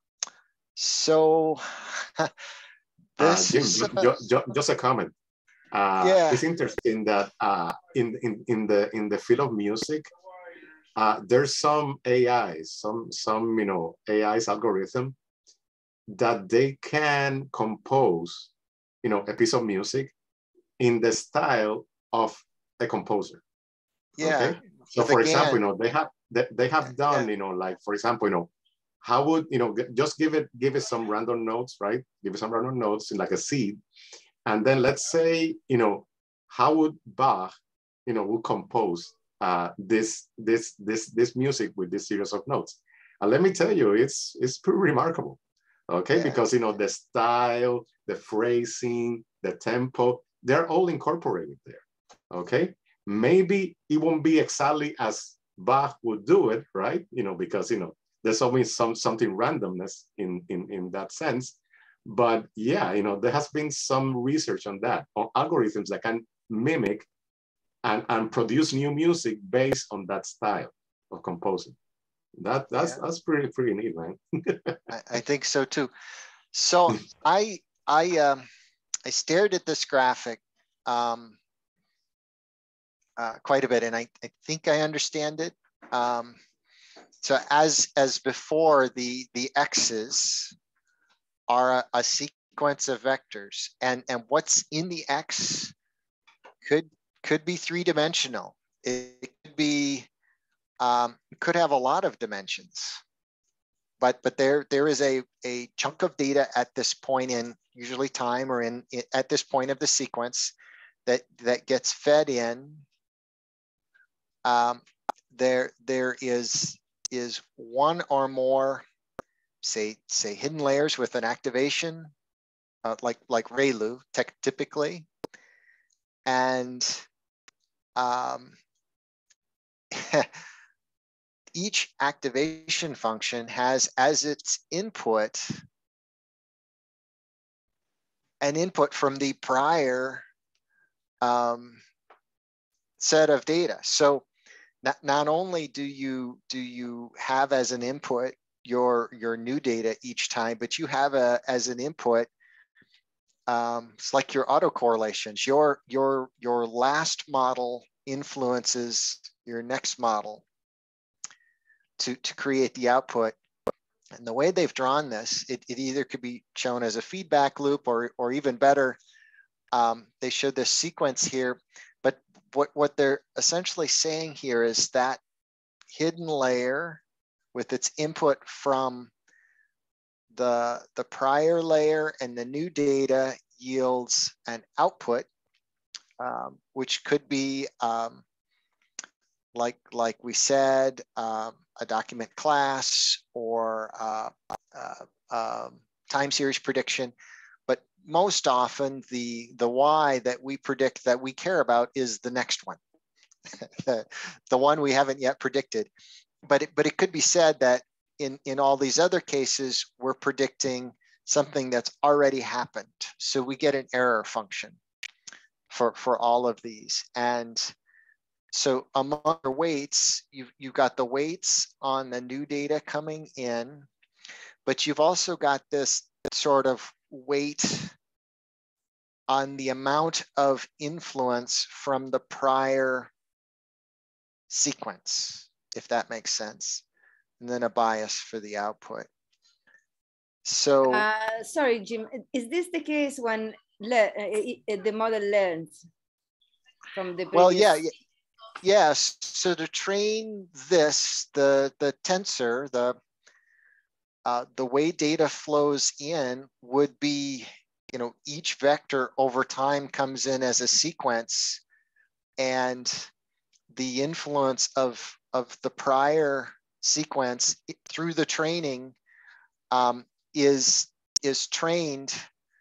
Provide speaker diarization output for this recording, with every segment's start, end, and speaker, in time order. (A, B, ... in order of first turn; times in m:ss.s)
0:00.8-0:02.3 A
0:03.2-0:04.1 A
0:03.2-0:05.1 B
0:05.7-0:10.1 B
0:06.0-0:06.4 A
0:11.0-0:15.2 B
0:16.1-0:18.5 B
0:19.0-0:20.1 B
0:20.8-0:23.4 B
0:24.2-0:25.6 A
0:24.2-0:28.5 B
0:29.0-0:33.8 B
0:34.5-0:37.5 B
0:38.1-0:45.4 B
0:45.9-1:07.1 B
0:46.1-0:46.4 A
1:07.8-1:11.8 B
1:12.4-1:14.8 B
1:14.9-1:15.9 A
1:16.5-1:18.4 A
1:19.0-1:21.4 A
1:23.2-1:26.4 A
1:27.2-1:30.6 A
1:31.5-1:35.7 A
1:36.6-1:40.1 A
1:40.8-1:43.0 A
1:44.0-1:50.5 A
1:51.1-1:52.8 A
1:54.4-1:58.8 A
1:59.6-2:02.1 A
2:02.8-2:05.1 A
2:06.2-2:07.1 A
2:08.0-2:08.6 A
2:09.9-2:10.3 A
2:11.5-2:15.6 A
2:18.4-2:20.2 A
2:21.2-2:21.8 A
2:23.0-2:24.3 A
2:24.8-2:32.3 A
2:33.5-2:40.4 A
2:42.0-2:43.4 A
2:44.2-2:49.0 A
2:49.7-2:55.2 A
2:55.9-2:57.0 A
2:57.5-2:59.1 A
3:00.3-3:05.3 A
3:06.2-3:08.2 A
3:09.5-3:17.2 A
3:17.7-3:22.8 A
3:23.5-3:25.9 A
3:26.4-3:34.8 A
3:35.7-3:37.8 A
3:38.5-3:43.9 A
3:44.6-3:48.0 A
3:49.3-3:53.1 A
3:54.5-3:56.8 A
3:57.4-3:59.1 A
4:00.4-4:01.1 A
4:00.8-4:05.8 C
4:06.9-4:07.8 C
4:07.3-4:07.9 A
4:08.6-4:13.0 A
4:14.2-4:21.6 A
4:22.4-4:23.1 A
4:23.7-4:29.0 A
4:29.7-4:32.2 A